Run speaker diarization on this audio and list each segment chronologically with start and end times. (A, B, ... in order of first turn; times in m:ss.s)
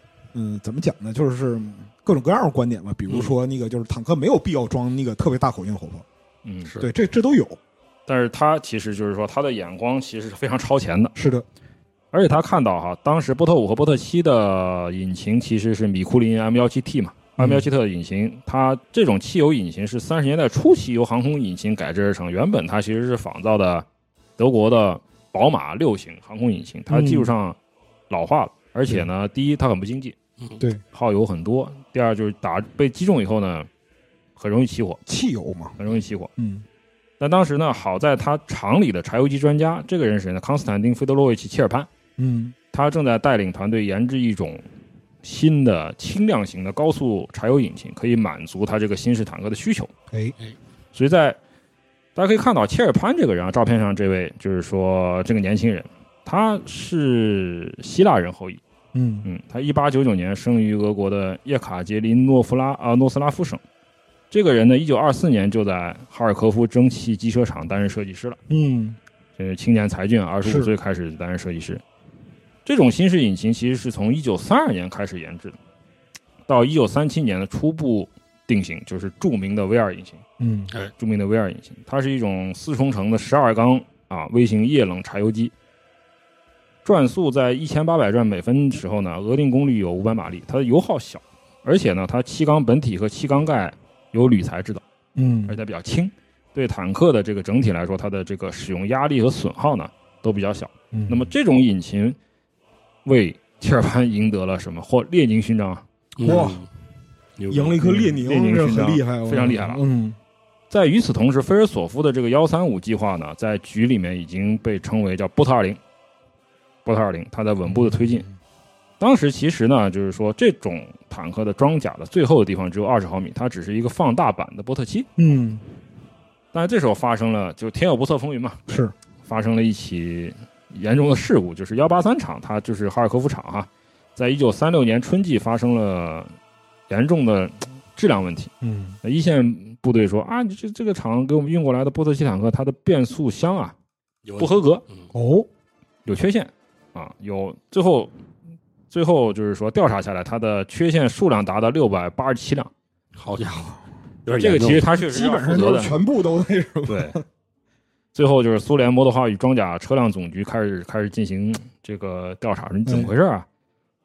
0:00.3-0:06.0 A
0:03.1-0:03.3 B
0:06.4-0:06.7 C
0:06.8-0:07.6 A
0:08.1-0:11.1 C
0:11.2-0:11.4 A
0:12.1-0:23.8 C
0:17.4-0:17.7 A
0:24.4-0:27.6 C
0:26.9-0:27.3 A
0:28.1-0:30.2 C
0:30.9-0:33.7 C
0:34.4-0:35.0 C
0:35.1-0:35.8 A
0:35.8-0:36.3 C
0:36.4-0:36.6 A
0:37.2-0:41.9 C
0:42.2-0:42.5 A
0:42.7-0:44.6 C
0:45.2-0:49.9 C
0:50.9-0:51.4 C
0:52.1-0:58.6 C
0:58.9-0:59.3 A
0:59.2-1:03.6 C
1:04.3-1:08.4 C
1:08.5-1:09.0 A
1:09.4-1:11.8 C
1:10.4-1:10.7 A
1:12.6-1:15.6 C
1:16.5-1:20.2 C
1:20.4-1:20.7 A
1:21.0-1:25.5 C
1:26.8-1:34.8 C
1:35.2-1:35.6 A
1:35.5-1:42.2 C
1:40.9-1:41.3 A
1:43.0-1:45.8 C
1:46.2-1:46.7 B
1:46.2-1:46.6 A
1:47.4-1:47.9 B
1:47.5-1:50.2 A
1:47.8-1:49.8 C
1:50.7-1:55.8 C
1:56.8-1:58.2 C
1:57.7-1:58.3 A
1:59.0-2:05.1 C
2:05.2-2:05.6 A
2:06.5-2:16.3 C
2:08.7-2:08.9 A
2:16.9-2:18.5 C
2:18.6-2:19.0 A
2:19.0-2:23.7 C
2:24.2-2:25.0 B
2:24.4-2:24.8 C
2:25.1-2:25.5 A
2:26.0-2:28.1 C
2:28.9-2:32.7 C
2:33.2-2:34.9 B
2:34.3-2:36.0 C
2:34.9-2:37.2 A
2:36.9-2:37.2 C
2:38.1-2:43.5 C
2:42.8-2:43.1 A